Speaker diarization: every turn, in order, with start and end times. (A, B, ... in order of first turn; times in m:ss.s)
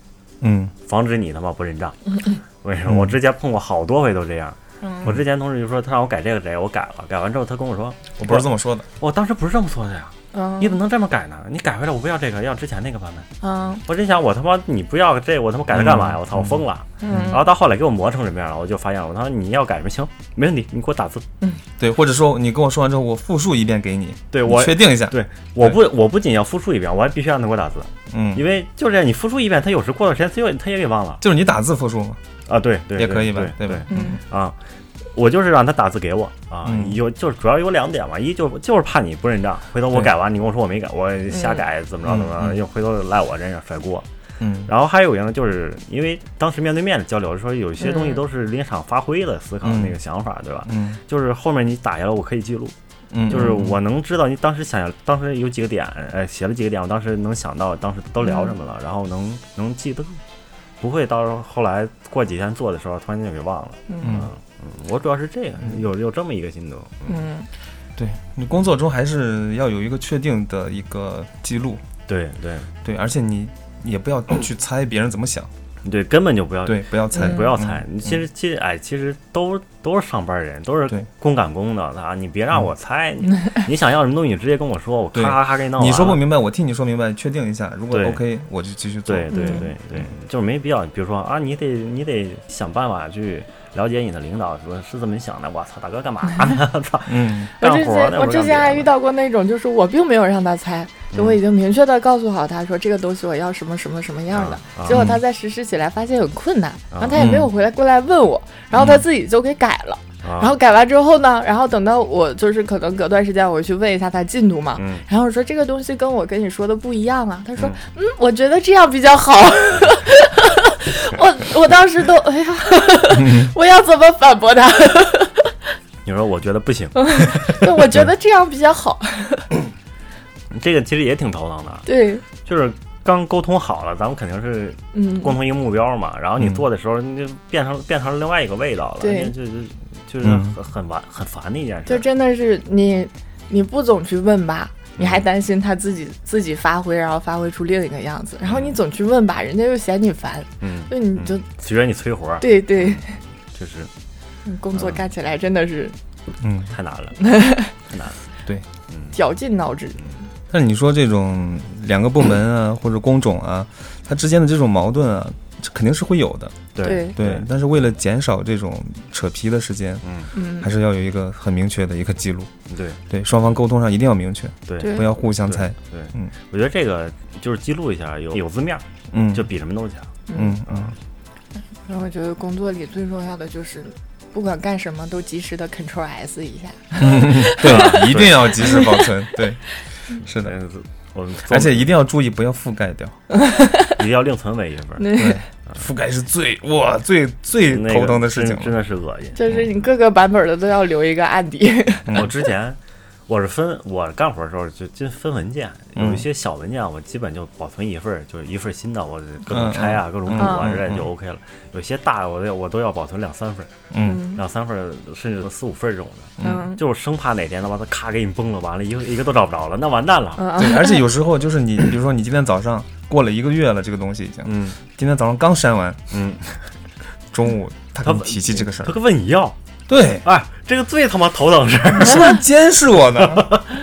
0:00.4-0:00.7 A
0:00.9-0:13.3 B
0:02.9-0:03.1 A
0:04.8-0:05.1 C
0:08.2-0:08.9 A
0:10.3-0:10.8 C
0:13.4-0:13.8 C
0:13.8-0:21.2 B
0:15.7-0:16.6 A
0:17.0-0:17.4 C
0:21.8-0:25.8 A
0:24.3-0:31.2 B
0:28.1-0:28.4 A
0:31.2-0:32.2 A
0:32.5-0:44.1 B
0:32.9-0:34.2 A
0:33.9-0:34.2 C
0:36.6-0:37.0 A
0:41.3-0:41.6 C
0:42.0-0:42.6 A
0:44.4-0:44.7 A
0:44.6-0:52.7 B
0:47.8-0:48.2 C
0:49.6-0:50.0 A
0:50.6-0:51.0 A
0:53.1-0:53.8 A
0:53.3-1:00.2 B
1:00.8-1:07.2 B
1:03.9-1:04.2 C
1:04.0-1:04.3 A
1:07.1-1:07.5 C
1:08.0-1:11.8 A
1:12.1-1:12.7 B
1:12.8-1:15.5 A
1:15.8-1:26.2 B
1:16.6-1:18.1 A
1:25.1-1:30.1 A
1:27.9-1:28.2 B
1:29.1-1:38.9 B
1:29.3-1:29.7 C
1:37.1-1:37.5 A
1:37.6-2:05.5 C
1:41.1-1:41.4 B
1:44.3-1:45.1 B
1:44.9-1:45.2 A
1:46.9-1:47.3 B
1:47.2-1:47.5 A
1:50.2-1:50.5 B
1:54.8-1:55.1 B
2:03.2-2:03.5 A
2:06.0-2:07.5 B
2:06.9-2:09.5 C
2:10.5-2:22.1 B
2:11.9-2:12.2 C
2:14.9-2:15.4 C
2:19.0-2:19.3 C
2:20.2-2:20.5 A
2:21.9-2:31.4 C
2:25.0-2:25.2 B
2:28.4-2:28.8 B
2:30.6-2:33.9 B
2:32.4-2:33.2 C
2:34.4-2:36.0 C
2:34.7-2:35.0 B
2:36.4-2:36.7 A
2:36.7-2:37.2 B
2:37.2-2:37.7 C
2:37.8-2:38.2 B
2:38.9-2:39.2 B
2:39.1-2:40.2 C
2:40.5-2:50.0 A
2:46.7-2:47.5 B
2:46.8-2:47.2 C
2:50.0-2:50.3 B
2:50.3-2:50.7 C
2:50.6-2:52.5 A
2:52.7-2:53.0 B
2:53.1-2:56.3 A
2:54.7-3:00.1 B
2:54.8-2:55.1 C
2:59.1-2:59.5 A
3:00.3-3:00.6 C
3:00.3-3:00.9 A
3:00.6-3:01.0 B
3:01.7-3:09.0 C
3:07.0-3:09.6 A
3:07.6-3:08.7 B
3:10.2-3:10.5 A
3:10.3-3:11.9 B
3:11.5-3:13.2 A
3:13.4-3:13.9 C
3:14.0-3:15.8 B
3:15.0-3:15.4 C
3:15.1-3:18.7 A
3:17.6-3:19.4 B
3:19.4-3:22.3 C
3:22.1-3:33.7 B
3:26.0-3:26.2 A
3:29.5-3:31.1 A
3:30.4-3:30.8 C
3:33.9-3:34.2 A
3:34.0-3:34.4 C
3:34.3-3:40.4 B
3:36.4-3:36.7 A
3:36.4-3:36.8 C
3:40.4-3:41.0 C
3:40.6-3:46.1 A
3:44.4-3:44.8 B
3:46.1-3:46.6 B
3:47.3-3:49.0 A
3:48.0-3:49.6 B
3:49.9-3:50.2 A
3:50.2-3:52.4 B
3:52.0-3:53.5 A
3:53.2-3:53.6 B